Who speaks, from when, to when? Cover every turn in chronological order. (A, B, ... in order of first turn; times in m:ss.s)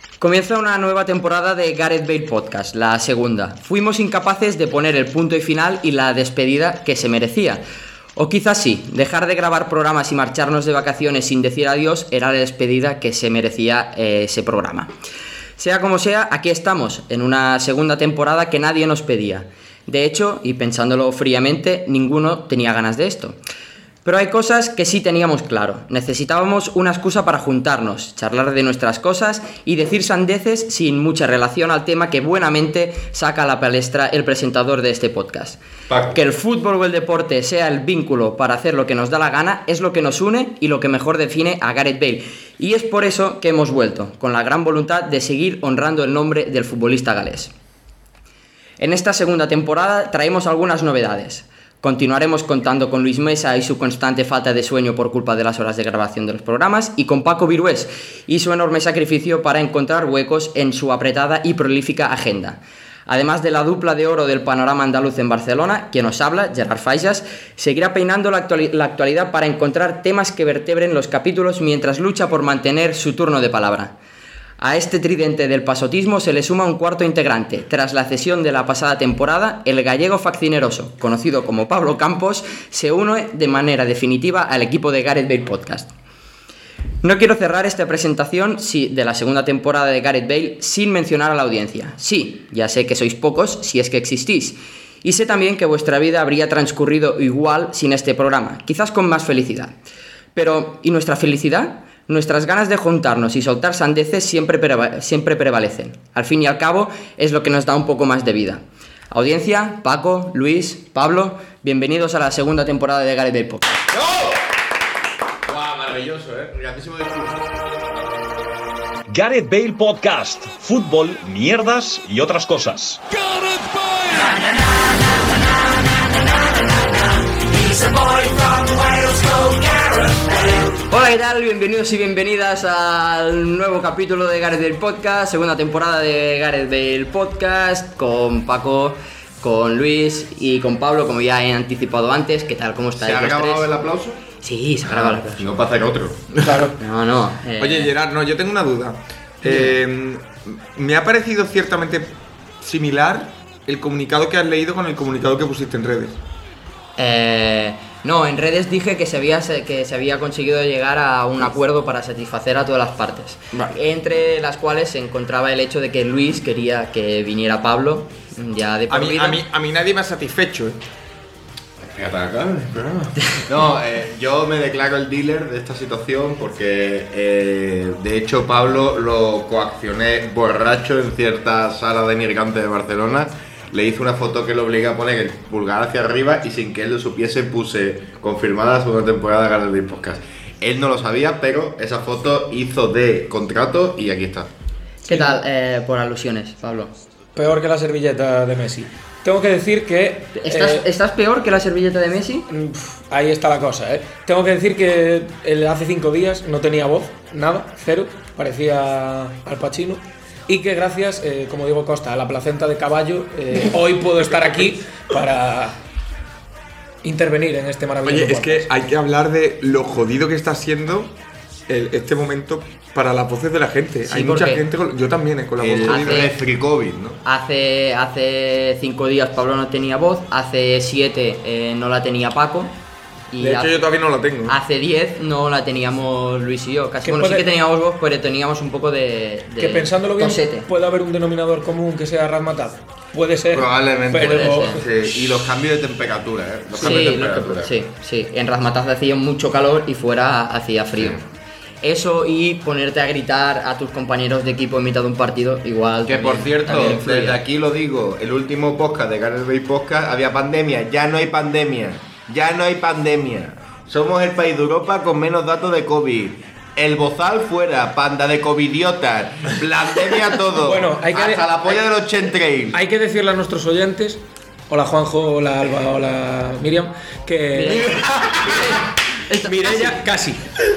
0:00.2-0:07.6 A
0:08.2-0:14.9 A
0:15.6-0:23.4 A
0:24.0-0:35.6 A
0:35.9-0:36.2 B
0:36.1-0:47.5 A
0:48.8-1:14.0 A
1:14.6-1:25.9 A
1:27.0-1:39.8 A
1:40.4-1:53.9 A
1:53.9-1:54.4 B
1:55.5-1:57.5 B
1:59.1-2:03.1 C
2:04.2-2:05.0 A
2:07.7-2:09.5 A
2:10.7-2:23.7 A
2:23.0-2:24.2 B
2:24.4-2:25.5 A
2:24.9-2:26.4 B
2:26.4-2:26.8 D
2:26.8-2:27.9 A
2:27.6-2:36.2 E
2:29.4-2:29.8 A
2:37.0-2:49.4 A
2:48.9-2:50.8 E
2:51.8-3:14.5 B
3:15.1-3:15.4 D
3:15.1-3:16.9 A
3:17.4-3:20.8 D
3:20.4-3:22.5 A
3:22.5-3:35.8 D
3:37.0-3:38.7 D
3:38.0-3:41.1 E
3:41.7-3:46.3 E
3:44.1-3:44.6 A
3:45.6-3:47.2 B
3:45.9-3:46.3 A
3:47.2-3:52.8 A
3:53.3-3:53.9 A
3:53.4-3:54.5 E
3:54.5-4:00.7 A
3:57.0-3:57.5 D
3:59.6-4:04.9 D
4:03.5-4:07.7 B
4:04.2-4:04.8 A
4:06.8-4:11.3 A
4:11.8-4:17.4 A
4:16.0-4:32.8 B
4:30.5-4:31.5 D
4:32.7-4:38.0 D
4:37.5-4:40.0 A
4:39.4-4:40.6 D